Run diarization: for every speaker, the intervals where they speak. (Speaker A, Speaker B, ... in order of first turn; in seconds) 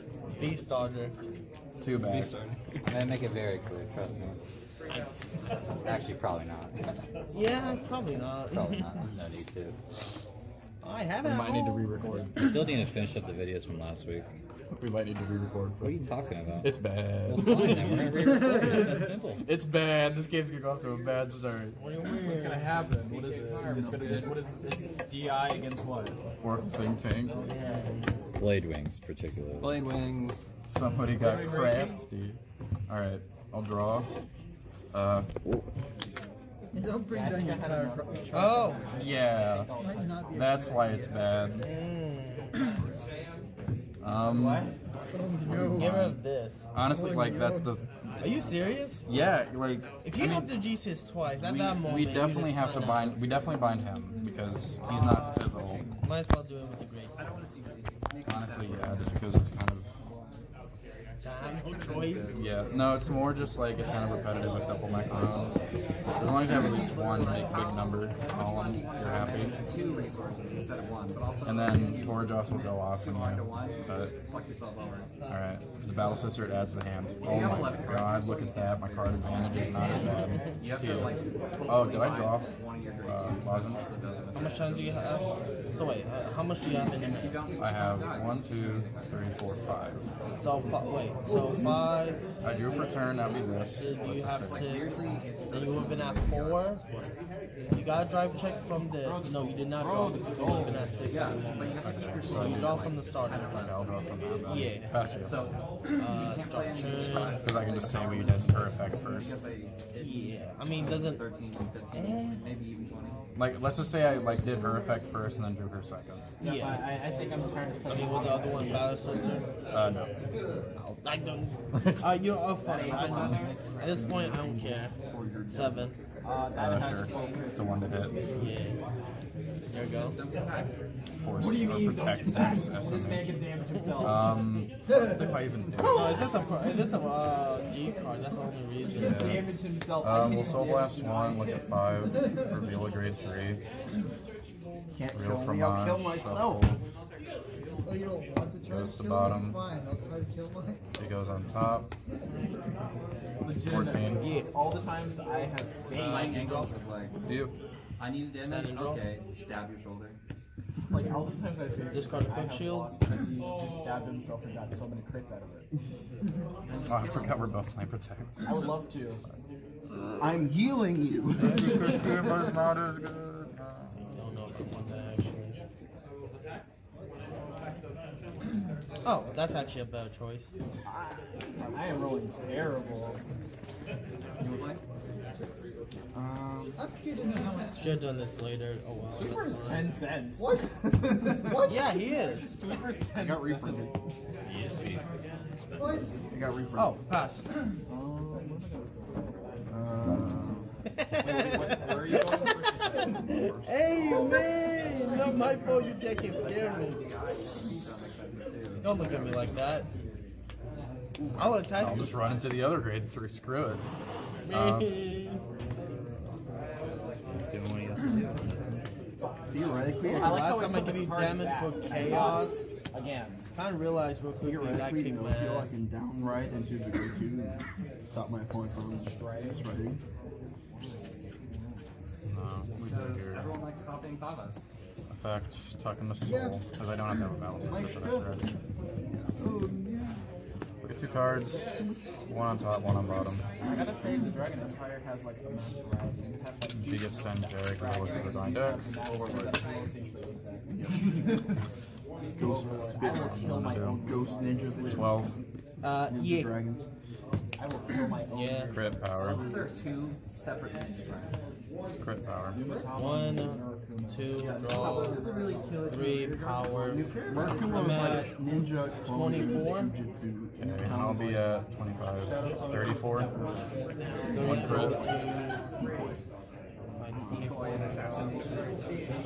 Speaker A: 0.4-1.1, 7.3-8.9, 10.8-12.2, 21.8-22.9, 27.3-28.2, 38.3-38.8, 41.6-42.5, 45.5-46.6, 48.2-49.0, 50.0-53.2, 56.0-57.3, 61.2-62.4, 79.8-80.4, 84.3-87.4, 90.4-92.2, 93.7-96.8, 97.7-103.8, 104.4-104.9, 105.9-107.5, 110.0-111.3, 111.9-112.4, 116.4-116.9, 117.8-119.5, 120.8-124.9, 125.5-126.0, 128.3-128.8, 129.7-130.2, 135.8-139.4, 154.2-154.5, 156.0-156.7, 158.4-159.1, 161.9-162.9, 173.9-175.6, 179.0-180.5, 187.8-190.0, 191.6-192.5, 196.7-197.4, 200.9-207.0, 208.8-209.9, 211.3-212.2, 214.4-215.4, 220.0-222.7, 223.5-225.8, 255.8-256.5, 258.3-258.7, 262.9-269.9, 274.3-275.6, 277.0-278.1
Speaker B: 1.8-2.4, 11.2-12.6, 14.8-18.8, 19.4-21.8, 26.4-27.4, 30.7-34.1, 34.9-35.3, 38.9-41.7, 44.0-44.7, 45.4-50.5, 51.3-55.9, 58.2-59.9, 62.3-69.6, 71.4-74.1, 75.3-83.8, 87.6-90.0, 92.4-94.8, 101.8-105.5, 107.2-109.4, 113.3-116.2, 119.7-120.1, 121.7-122.2, 126.5-128.1, 131.2-136.4, 138.9-143.6, 145.1-146.7, 148.6-149.7, 151.0-151.9, 153.6-154.2, 157.2-157.5, 166.8-168.8, 171.4-174.0, 211.2-213.8, 214.5-215.1, 232.3-233.6, 235.1-238.4, 240.8-241.7, 242.3-243.5, 246.7-248.9, 253.1-254.0, 254.9-255.3, 258.7-259.6, 262.0-262.6, 270.6-273.3, 274.3-275.1
Speaker C: 1.9-2.6, 29.6-30.5, 55.5-55.9, 57.2-59.2, 61.4-62.5, 66.5-75.1, 77.2-85.0, 87.0-89.0, 94.3-97.1, 101.0-104.0, 105.1-113.2, 122.7-123.7, 129.7-130.8, 155.9-157.2, 158.0-160.2, 166.7-167.5, 184.4-184.8, 201.3-203.0, 206.0-210.0, 232.8-234.7, 248.0-248.4, 259.1-261.5, 264.4-265.2, 273.0-273.5, 277.3-279.0
Speaker D: 2.9-4.4, 5.8-7.0, 8.2-9.8, 12.3-14.3, 15.8-19.5, 28.4-29.9, 194.4-195.1, 195.6-196.2, 217.3-218.8
Speaker E: 18.6-19.0, 36.7-41.2, 45.1-46.1, 46.8-47.8, 114.0-115.2, 131.4-132.7, 134.9-137.0, 137.6-138.4, 147.8-151.3, 171.5-172.3, 186.8-188.4, 190.4-192.4, 195.8-196.2, 205.0-205.8, 236.2-236.6, 237.7-238.2, 262.6-263.1, 264.6-268.3
Speaker F: 22.0-26.2, 27.2-27.9, 31.0-32.0, 37.1-40.3, 44.1-44.8, 54.8-56.0, 99.0-101.3, 116.4-119.1, 122.7-123.8, 126.2-128.6, 131.4-134.5, 139.0-141.7, 153.4-156.7, 160.9-165.7, 168.4-169.2, 181.7-183.2, 189.1-193.9, 197.9-199.2, 201.2-203.2, 220.0-223.4, 228.9-229.8, 237.7-238.2, 243.6-251.6, 252.3-255.3, 257.6-259.8, 262.4-264.8, 272.0-275.3, 277.4-278.5
Speaker G: 23.6-24.1, 123.8-126.2, 144.9-146.8, 170.2-171.8, 180.8-182.3, 186.1-186.8, 193.2-194.0, 196.3-197.0, 199.7-200.7, 203.3-203.7, 219.5-220.6, 224.4-230.0, 239.4-240.1, 249.0-249.6, 252.4-255.3, 255.9-256.9, 266.7-271.6, 275.8-276.2, 277.1-277.5